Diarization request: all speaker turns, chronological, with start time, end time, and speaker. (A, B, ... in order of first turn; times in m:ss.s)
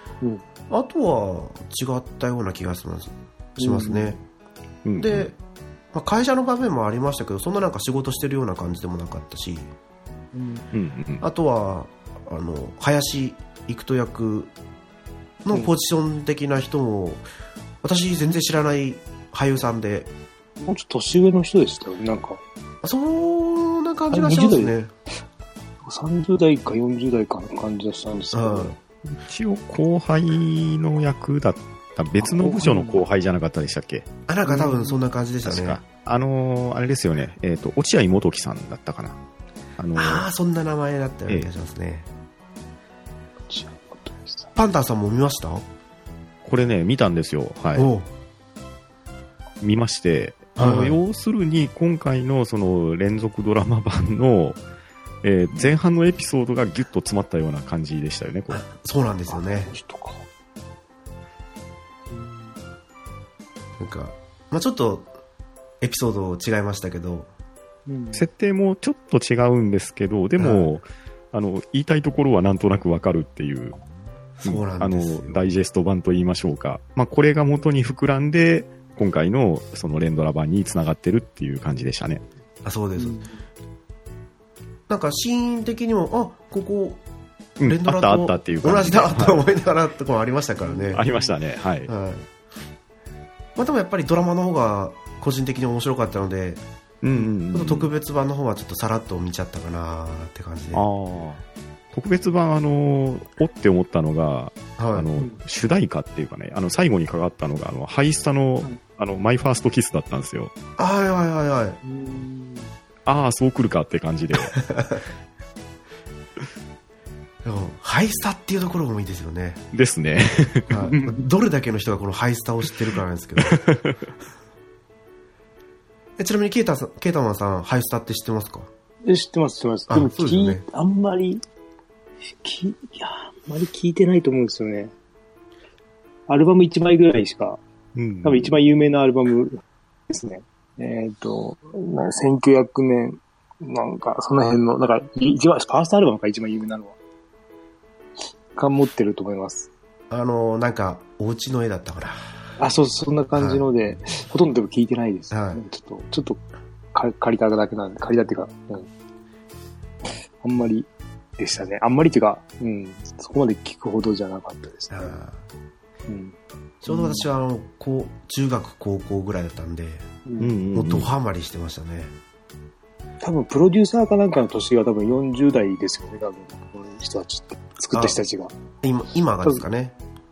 0:00.7-0:04.2 A
0:03.6-0:04.2 B
0:04.8-0:05.3 C
0:05.0-0:05.4 A
0:05.9-0:09.7 A
0:10.3-0:10.6 B
0:10.7-0:11.2 C
0:11.2-0:14.5 A
0:15.4-0:17.2 A
0:17.8-0:20.1 A
0:20.6-0:22.4 B
0:22.8-0:24.9 A
0:24.1-0:24.7 B
0:25.8-0:28.7 B
0:28.3-0:28.8 A
0:29.0-0:34.1 C
0:32.2-0:33.0 B
0:34.3-0:35.8 A
0:34.5-0:35.0 B
0:35.4-0:39.2 C
0:39.8-0:40.2 C
0:40.0-0:42.1 A
0:43.5-0:44.5 B
0:44.6-0:45.6 A
0:46.4-0:47.9 C
0:47.7-0:48.1 A
0:49.6-0:54.6 C
0:50.6-0:51.0 A
0:55.2-0:58.6 C
0:58.5-0:59.7 A
0:59.3-1:00.2 B
1:02.1-1:02.5 B
1:03.8-1:05.1 A
1:05.8-1:07.3 A
1:07.9-1:08.2 B
1:08.1-1:13.8 C
1:10.4-1:10.7 A
1:14.4-1:15.4 A
1:14.4-1:22.2 C
1:22.6-1:23.2 A
1:23.0-1:23.4 B
1:24.9-1:27.0 A
1:27.6-1:29.4 C
1:27.6-1:31.0 A
1:30.6-1:31.3 B
1:30.9-1:31.9 C
1:31.9-1:32.3 A
1:33.6-1:36.6 A
1:37.0-1:37.9 C
1:37.5-1:40.8 A
1:40.7-1:50.5 C
1:44.8-1:45.1 A
1:50.8-1:51.8 A
1:51.8-1:52.7 B
1:53.0-1:54.6 C
1:54.6-1:55.0 A
1:57.4-1:59.6 A
1:59.7-2:00.9 C
2:00.7-2:03.6 A
2:00.9-2:01.2 B
2:03.4-2:04.0 C
2:06.2-2:08.7 A
2:09.0-2:11.4 B
2:09.9-2:10.6 A
2:12.4-2:14.9 B
2:16.3-2:17.6 B
2:17.9-2:18.5 C
2:18.2-2:27.0 B
2:28.5-2:29.7 B
2:30.1-2:32.3 A
2:32.6-2:36.4 B
2:33.3-2:33.7 A
2:35.3-2:35.6 A
2:36.9-2:38.9 B
2:40.4-2:45.2 B
2:44.9-2:45.4 A
2:46.1-2:46.4 B
2:46.8-2:50.1 A
2:46.9-2:47.3 B
2:50.2-2:50.6 B
2:50.4-2:51.1 C
2:50.7-2:52.1 A
2:53.2-2:58.5 B
2:57.9-2:58.2 A
2:58.8-3:00.0 A